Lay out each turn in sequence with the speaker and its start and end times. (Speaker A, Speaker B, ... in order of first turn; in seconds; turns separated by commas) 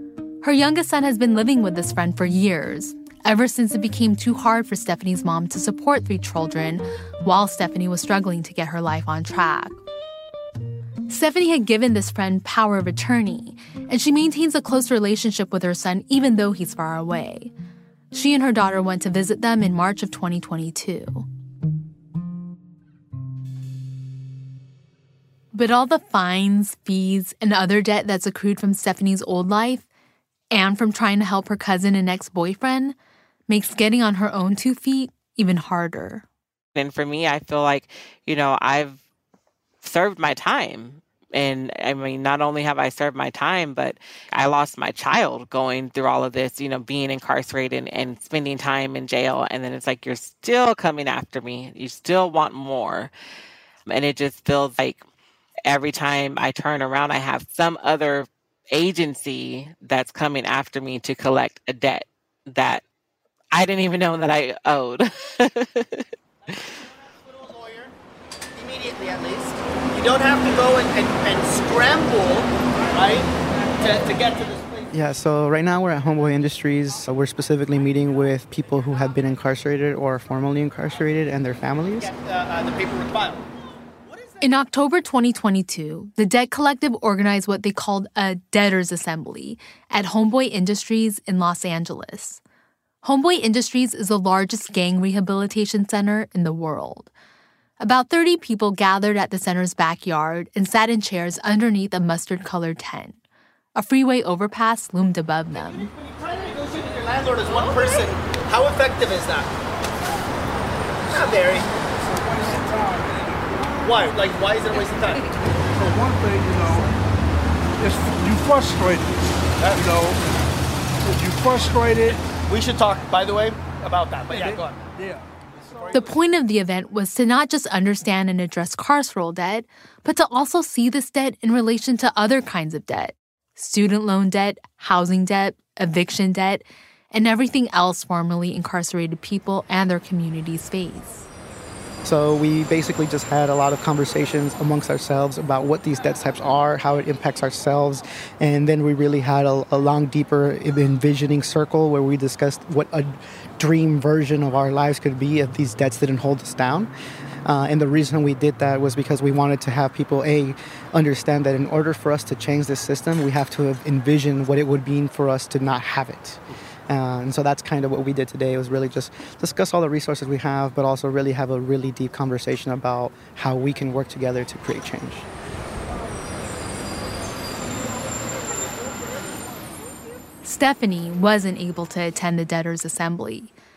Speaker A: 0.4-9.8, Speaker A: 11.1-17.5, Speaker A: 18.1-21.3, Speaker A: 25.5-29.9, Speaker A: 30.5-33.0, Speaker A: 33.5-36.3, Speaker B: 36.8-39.0, Speaker B: 39.8-53.1, Speaker B: 53.9-55.0, Speaker B: 55.7-62.8, Speaker B: 63.5-66.6, Speaker C: 67.4-67.9, Speaker C: 68.6-74.8, Speaker D: 74.9-82.2, Speaker C: 82.2-83.4, Speaker A: 84.4-92.4, Speaker A: 93.0-97.1, Speaker A: 97.8-103.2, Speaker A: 103.8-105.9, Speaker C: 106.2-109.5, Speaker C: 111.1-111.7, Speaker E: 112.0-114.2, Speaker C: 113.8-115.2, Speaker E: 115.6-116.9, Speaker E: 117.8-120.2, Speaker E: 121.0-122.2, Speaker C: 122.5-124.8, Speaker E: 124.2-126.2, Speaker A: 125.9-141.3, Speaker D: 142.0-156.9, Speaker D: 157.5-175.3, Speaker A: 180.4-183.5